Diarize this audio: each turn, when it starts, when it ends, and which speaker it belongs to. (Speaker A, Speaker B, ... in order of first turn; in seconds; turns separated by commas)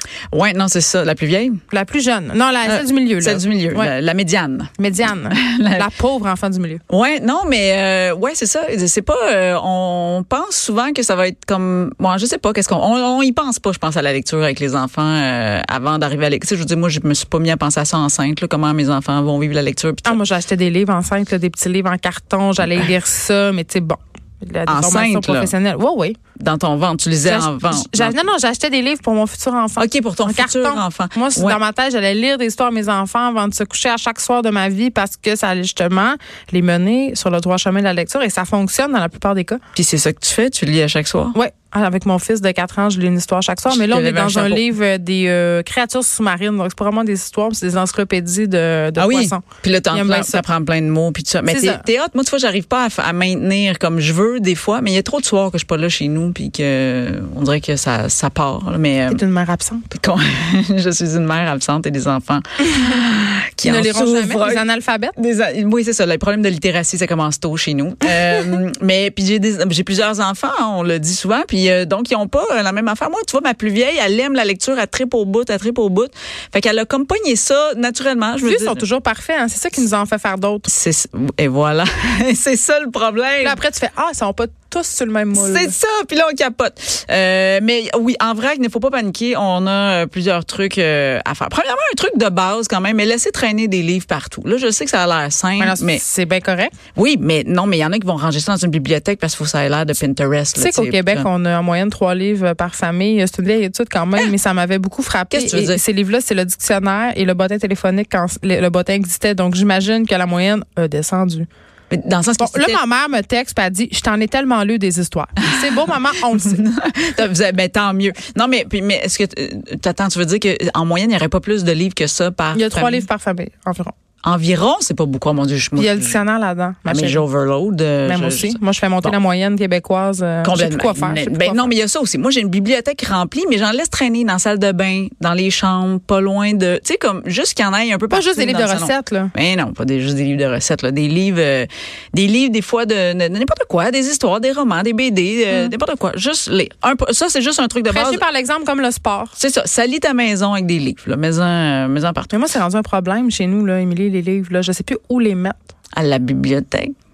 Speaker A: 0.3-1.6, Speaker B: 1.7-3.9, Speaker A: 2.6-5.9, Speaker B: 4.8-6.8, Speaker A: 6.9-20.2, Speaker B: 20.1-26.2, Speaker A: 24.7-25.5, Speaker A: 26.4-28.2, Speaker B: 27.2-39.6, Speaker A: 29.8-31.6, Speaker A: 39.8-41.4, Speaker B: 41.3-50.4, Speaker A: 43.7-44.6, Speaker A: 49.0-59.2, Speaker B: 51.5-51.8, Speaker B: 59.1-59.9, Speaker A: 59.9-64.7, Speaker B: 63.6-65.2, Speaker A: 65.2-78.8, Speaker B: 78.4-80.7, Speaker A: 80.7-83.6, Speaker B: 83.4-85.8, Speaker A: 85.3-96.0, Speaker B: 95.6-96.7, Speaker A: 97.0-101.3, Speaker B: 100.6-111.5, Speaker A: 105.3-105.8, Speaker A: 111.9-112.8, Speaker B: 112.4-116.6, Speaker A: 115.4-123.1, Speaker B: 122.5-123.9, Speaker A: 124.2-126.2, Speaker B: 125.8-127.2, Speaker A: 126.9-129.2, Speaker B: 128.1-131.7, Speaker A: 130.4-148.2, Speaker B: 138.1-139.3, Speaker B: 147.9-149.4, Speaker A: 149.4-152.3, Speaker B: 152.3-155.7, Speaker A: 155.9-156.9